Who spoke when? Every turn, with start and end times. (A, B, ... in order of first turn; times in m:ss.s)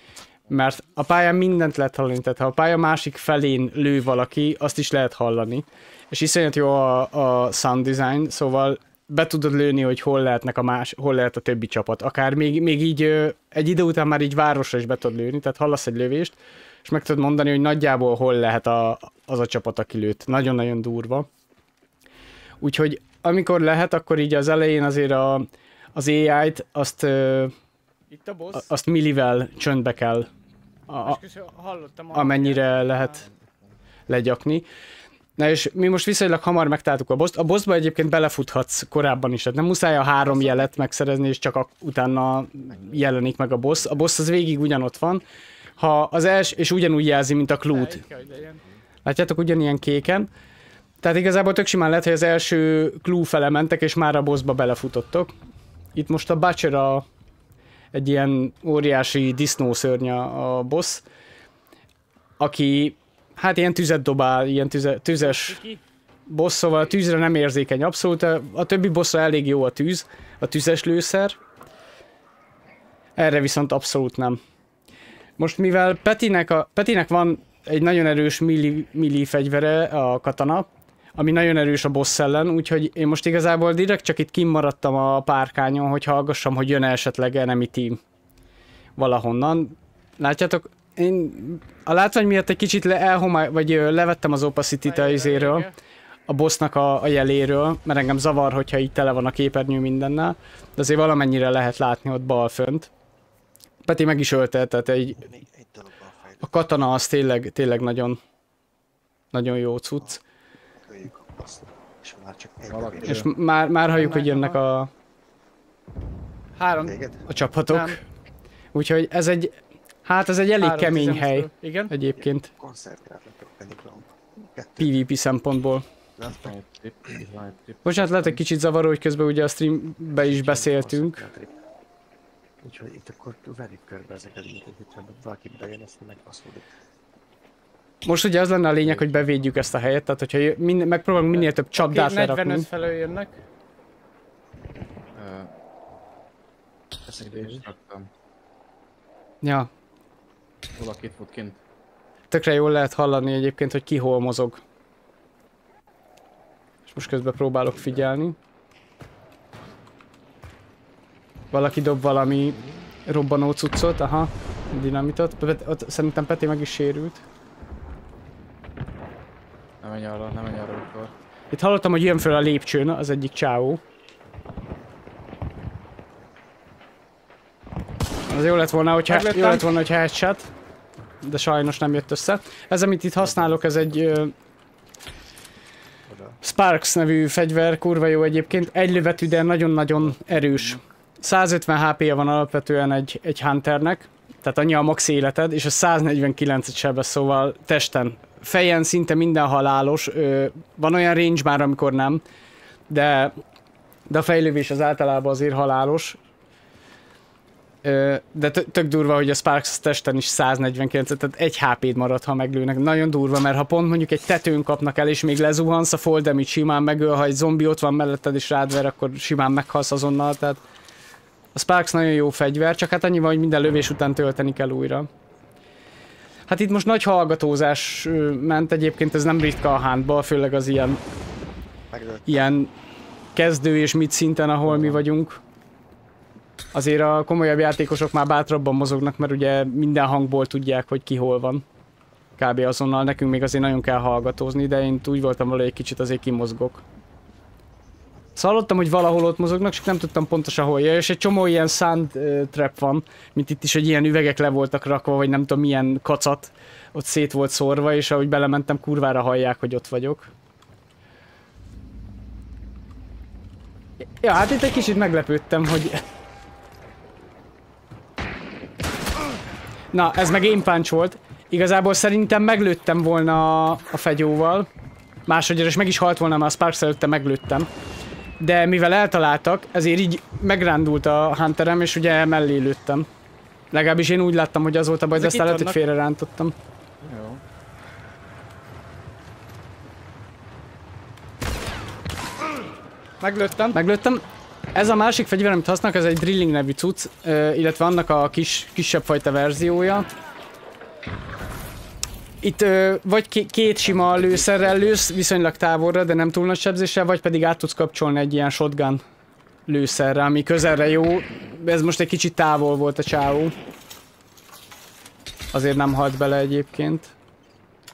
0:00.5-0:21.3 A
0:22.6-0:27.5 A
0:28.1-0:28.7 B
0:28.5-0:30.3 A
0:30.9-0:31.2 A
0:31.0-0:33.2 B
0:32.1-0:33.2 A
0:33.1-0:33.7 C
0:34.1-0:34.6 A
0:35.4-0:45.2 A
0:40.2-0:40.8 B
0:42.7-0:43.0 D
0:45.8-0:48.0 A
0:47.7-0:48.6 B
0:49.0-0:50.3 A
0:51.0-0:55.3 A
0:55.9-0:57.0 A
0:57.9-1:01.0 A
1:02.4-1:05.6 A
1:05.2-1:05.8 B
1:06.3-1:11.4 A
1:13.2-1:14.4 A
1:15.4-1:28.0 A
1:29.0-1:35.7 A
1:34.8-1:35.7 B
1:36.3-1:42.9 A
1:43.8-1:45.2 A
1:45.1-1:46.6 D
1:46.4-1:48.2 A
1:49.3-1:50.2 A
1:50.8-1:53.3 D
1:52.7-1:53.3 C
1:53.0-1:54.9 A
1:53.9-1:54.6 B
1:56.6-1:57.0 B
1:56.7-1:57.3 D
1:57.3-1:58.0 A
1:57.7-1:58.0 B
1:58.7-2:02.5 A
2:00.6-2:01.9 B
2:02.1-2:05.0 D
2:04.8-2:05.8 A
2:06.2-2:06.5 D
2:06.3-2:08.4 C
2:07.8-2:11.2 A
2:10.1-2:11.6 D
2:12.6-2:16.7 D
2:18.0-2:22.7 A
2:21.7-2:23.3 B
2:25.1-2:25.5 C
2:27.0-2:27.6 D
2:27.2-2:28.1 C
2:29.4-2:29.7 A
2:30.7-2:31.6 C
2:32.3-2:34.6 A
2:36.9-2:38.4 A
2:41.5-2:47.2 A
2:49.8-2:51.1 C
2:51.5-2:53.8 A
2:58.3-3:00.5 A
2:59.1-2:59.6 B
3:01.2-3:04.3 A
3:03.2-3:03.9 D
3:06.1-3:06.4 D
3:06.4-3:22.2 A
3:10.0-3:10.8 C
3:22.9-3:23.4 A
3:24.1-3:26.2 A
3:27.8-3:40.6 A
3:41.5-3:45.1 A
3:46.5-3:51.0 A
3:51.9-3:52.5 D
3:52.2-3:52.7 A
3:53.3-3:55.4 A
3:54.6-3:55.0 C
3:56.7-4:01.6 A
4:02.4-4:06.8 A
4:08.4-4:20.3 A
4:24.2-4:26.0 A
4:29.9-4:34.7 A
4:35.3-4:37.7 A
4:38.4-4:43.1 A
4:43.7-4:46.5 A
4:45.1-4:45.8 B
4:47.0-4:47.4 C
4:53.2-4:53.8 B
4:53.7-5:00.1 A
5:02.4-5:09.0 A
5:03.8-5:05.0 C
5:09.7-5:13.5 A
5:15.5-5:17.1 A